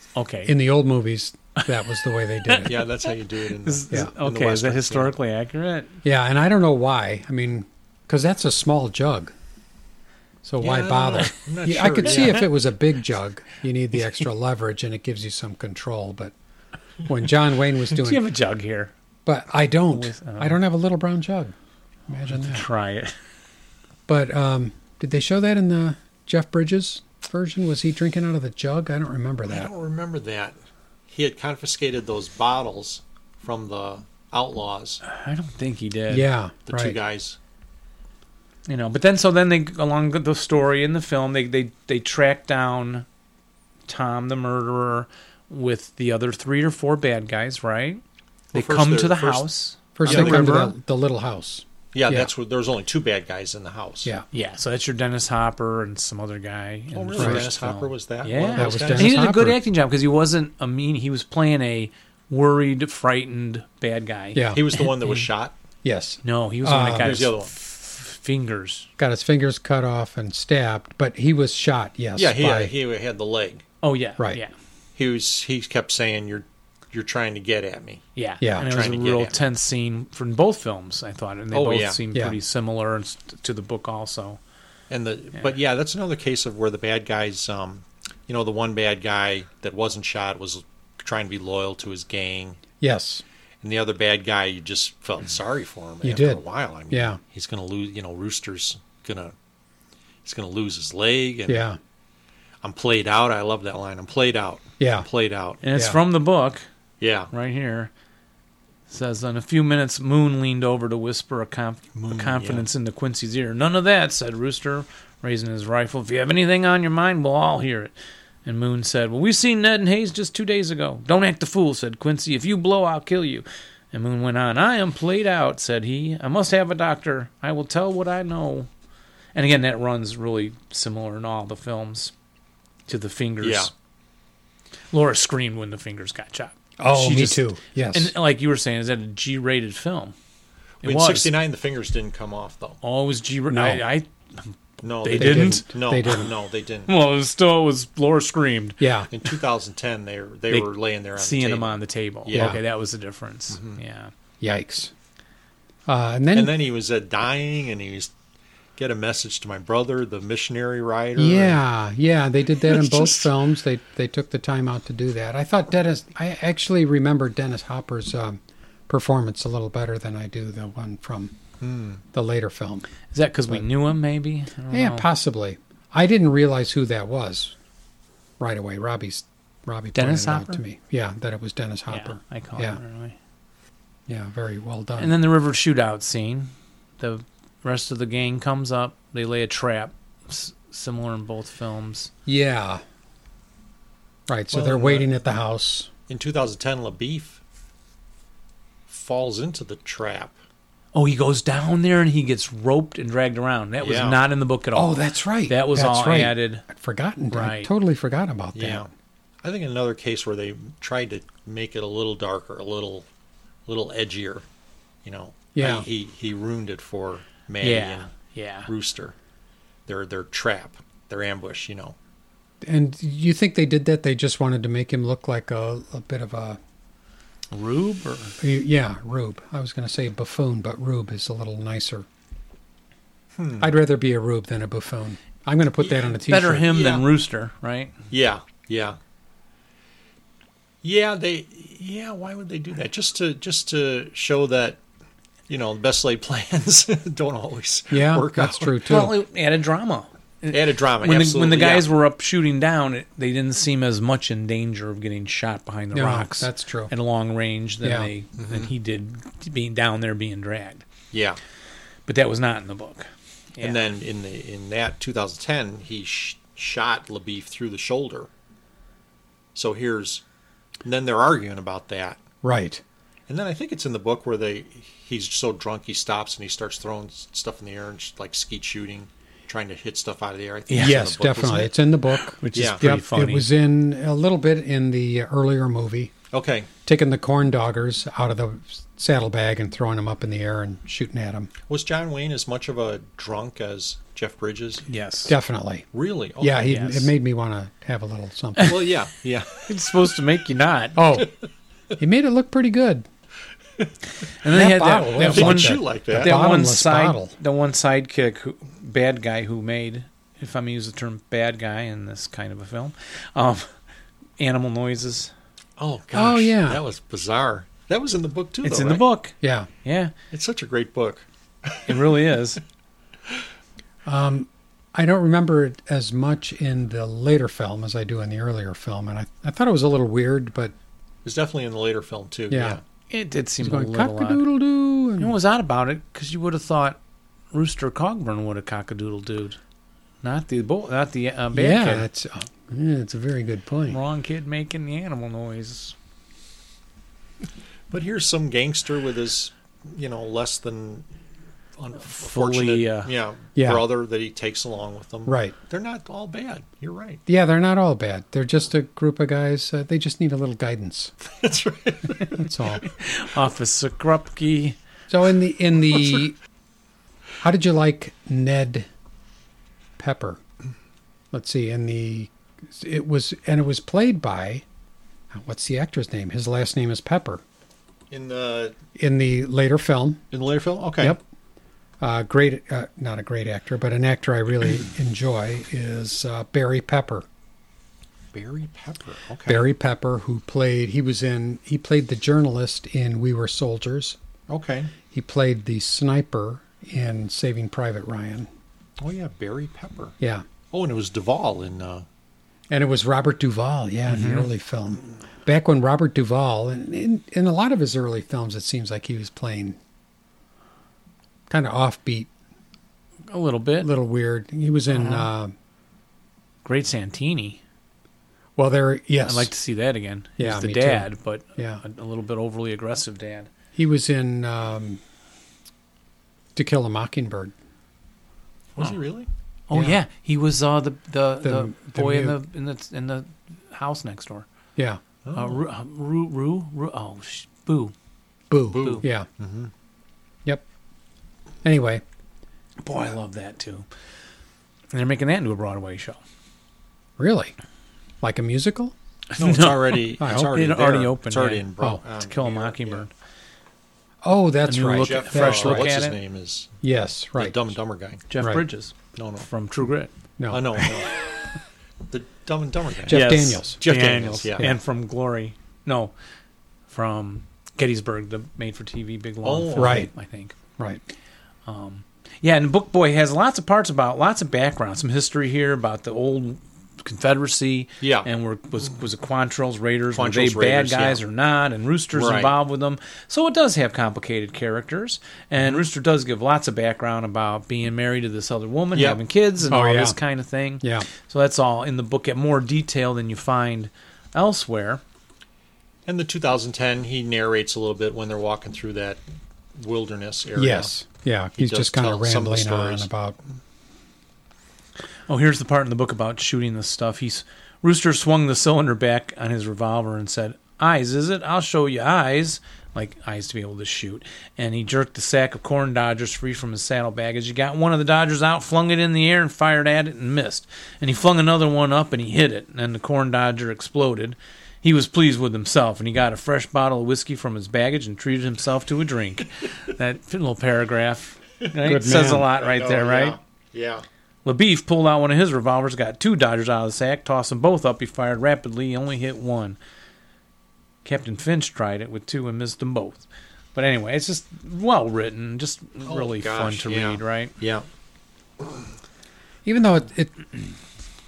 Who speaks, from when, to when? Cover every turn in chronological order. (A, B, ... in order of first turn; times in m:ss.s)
0:00.1-0:00.5 A
0:00.4-0:02.8 B
0:02.6-0:05.1 C
0:03.6-0:06.0 A
0:06.0-0:09.3 B
0:10.4-0:16.3 B
0:10.6-0:12.5 C
0:17.0-0:18.2 B
0:17.9-0:18.9 A
0:19.2-0:21.5 B
0:19.9-0:20.6 A
0:22.1-0:22.6 B
0:22.3-0:23.2 A
0:24.1-0:29.7 B
0:29.5-0:30.6 C
0:31.1-0:35.0 C
0:35.0-0:36.3 A
0:36.1-0:37.0 B
0:36.7-0:37.4 C
0:38.7-0:43.0 A
0:43.9-0:48.0 A
0:48.5-0:49.5 C
0:48.5-0:50.6 A
0:50.0-0:52.3 B
0:50.0-0:50.7 C
0:51.9-0:54.1 C
0:54.3-1:05.2 A
0:56.9-0:59.1 C
0:57.2-0:57.4 B
0:58.5-0:59.6 B
1:04.3-1:04.6 B
1:04.5-1:05.5 C
1:05.8-1:07.2 B
1:06.2-1:08.9 A
1:07.0-1:07.5 C
1:09.0-1:12.7 B
1:12.2-1:13.6 C
1:13.8-1:14.5 A
1:15.0-1:18.0 C
1:18.2-1:24.4 A
1:18.4-1:18.7 B
1:18.6-1:19.4 C
1:21.5-1:22.0 C
1:24.9-1:32.6 C
1:32.8-1:33.2 B
1:33.6-1:39.3 C
1:36.0-1:37.2 B
1:40.2-1:41.6 C
1:41.5-1:41.8 B
1:42.6-1:45.6 C
1:44.8-1:45.1 B
1:45.6-1:46.6 A
1:47.0-1:47.3 C
1:47.3-1:47.9 A
1:48.9-1:57.9 A
1:52.0-1:52.6 C
1:58.4-2:08.7 A
2:09.3-2:12.1 A
2:12.9-2:13.7 A
2:13.4-2:13.7 C
2:14.9-2:20.1 A
2:16.8-2:18.1 B
2:20.8-2:22.8 C
2:20.8-2:21.3 A
2:22.8-2:25.7 A
2:23.5-2:23.8 B
2:24.8-2:26.9 C
2:25.2-2:26.3 B
2:26.9-2:28.8 A
2:28.8-2:29.1 B
2:29.1-2:32.6 C
2:30.5-2:34.1 A
2:32.3-2:32.6 B
2:33.5-2:33.8 C
2:34.4-2:34.9 B
2:35.9-2:36.5 B
2:36.3-2:38.1 C
2:38.8-2:41.6 C
2:41.2-2:51.3 B
2:42.6-2:43.3 C
2:51.6-2:52.0 C
2:52.1-2:52.9 B
2:53.1-2:55.1 A
2:54.7-2:57.5 B
2:58.4-3:02.8 B
2:59.9-3:00.6 A
3:01.9-3:03.2 A
3:04.1-3:05.1 B
3:05.0-3:12.1 A
3:12.2-3:12.8 B
3:14.3-3:15.9 B
3:14.5-3:15.1 C
3:16.1-3:17.4 C
3:18.9-3:20.4 C
3:20.9-3:26.6 A
3:23.8-3:24.2 C
3:24.7-3:28.8 B
3:27.3-3:27.7 A
3:28.5-3:28.9 C
3:29.4-3:33.0 C
3:33.7-3:34.4 C
3:35.0-3:38.1 C
3:35.5-3:35.8 B
3:37.6-3:38.7 A
3:38.7-3:39.1 C
3:39.9-3:41.9 C
3:42.6-3:46.6 B
3:47.5-3:48.4 A
3:48.4-3:52.0 B
3:53.4-3:53.7 C
3:53.6-3:56.7 B
3:56.2-3:57.9 A
3:56.6-3:57.0 C
3:58.1-3:59.0 C
4:00.8-4:04.8 C
4:05.5-4:08.8 C
4:07.9-4:09.1 B
4:08.8-4:20.8 A
4:10.5-4:11.9 C
4:15.9-4:16.9 B
4:17.8-4:18.1 B
4:18.4-4:18.7 C
4:21.1-4:21.4 C
4:22.1-4:23.8 A
4:23.6-4:28.3 C
4:29.5-4:30.2 C
4:30.8-4:32.2 C
4:32.4-4:32.8 B
4:33.3-4:41.7 C
4:40.7-4:41.0 A
4:40.7-4:46.1 B
4:42.4-4:43.5 A
4:42.5-4:42.8 C
4:46.3-4:46.7 C
4:46.8-4:51.5 B
4:51.7-4:54.8 C
4:54.9-4:55.3 A
4:55.3-4:55.8 B
4:55.9-4:57.0 C
4:56.4-4:58.8 B
4:56.7-4:57.1 A
4:58.6-4:59.6 C
4:59.6-5:01.0 A
5:00.9-5:01.3 B
5:02.0-5:03.1 B
5:04.4-5:13.7 A
5:04.4-5:07.3 B
5:05.2-5:06.4 C
5:14.4-5:15.3 A
5:15.8-5:19.0 C
5:16.1-5:16.8 B
5:18.6-5:20.1 A
5:19.4-5:19.7 B
5:20.3-5:22.1 C
5:21.8-5:22.6 A
5:24.0-5:30.7 B
5:31.2-5:32.8 C
5:32.5-5:32.8 B
5:33.1-5:34.4 A
5:33.6-5:35.3 B
5:35.2-5:37.0 A
5:37.5-5:39.6 A
5:40.2-5:42.1 A
5:41.5-5:44.0 B
5:43.9-5:45.9 A
5:47.9-5:51.0 C
5:51.8-5:57.2 C
5:52.0-5:53.1 A
5:53.6-5:53.8 B
5:55.2-5:55.6 B
5:57.3-6:01.1 B
6:01.4-6:02.4 C
6:02.3-6:02.8 B
6:02.8-6:04.8 A
6:05.1-6:06.4 B
6:07.4-6:08.9 B
6:10.0-6:10.4 B
6:11.3-6:14.6 B
6:15.3-6:17.4 B
6:18.1-6:18.8 C
6:19.0-6:20.2 B
6:20.3-6:21.2 C
6:22.0-6:27.2 B
6:28.3-6:29.6 C
6:29.5-6:34.2 B
6:34.5-6:34.9 C
6:35.1-6:38.5 B
6:39.0-6:40.1 C
6:40.2-6:40.4 B
6:40.7-6:42.0 C
6:42.7-6:49.8 B
6:44.1-6:44.5 A
6:51.5-6:52.3 B
6:53.3-6:53.9 A
6:53.8-6:55.5 B
6:54.9-6:55.3 A
6:56.6-6:57.6 A
6:58.6-6:59.5 B
6:59.2-7:03.5 A
7:00.4-7:01.8 B
7:03.8-7:05.0 B
7:06.5-7:07.5 B
7:08.8-7:09.3 C
7:09.7-7:14.4 A
7:09.7-7:10.0 B
7:11.4-7:12.4 B
7:14.8-7:15.0 B
7:15.2-7:15.6 C
7:15.3-7:17.9 A
7:18.5-7:19.3 B
7:18.7-7:19.7 C
7:18.7-7:19.0 A
7:21.6-7:22.0 B
7:22.8-7:23.9 A
7:24.9-7:26.2 A
7:27.2-7:27.5 B
7:28.2-7:28.9 B
7:29.3-7:31.7 A
7:29.4-7:33.1 C
7:30.2-7:30.5 B
7:32.2-7:33.1 A
7:34.2-7:35.9 B
7:34.7-7:36.2 A
7:34.9-7:36.8 C
7:36.8-7:37.6 B
7:37.4-7:38.3 C
7:38.3-7:40.1 A
7:38.4-7:38.6 B
7:39.2-7:39.5 C
7:40.4-7:41.1 B
7:40.5-7:41.2 C
7:42.1-7:44.7 C
7:43.1-7:43.8 B
7:43.1-7:46.1 A
7:46.9-7:50.5 A
7:49.4-7:50.1 C
7:49.8-7:50.1 B
7:51.6-8:15.0 A
7:58.0-7:58.3 C
8:00.1-8:01.2 C
8:02.1-8:02.5 C
8:08.9-8:09.2 C
8:09.7-8:10.2 B
8:10.8-8:11.1 B
8:16.1-8:19.2 C
8:19.8-8:20.9 C
8:20.6-8:23.4 B
8:21.6-8:23.1 C
8:25.3-8:53.4 A
8:51.8-8:52.5 B
8:51.9-8:54.0 C
8:54.4-8:59.8 A
9:01.0-9:07.5 A
9:06.0-9:07.8 C
9:09.6-9:10.3 B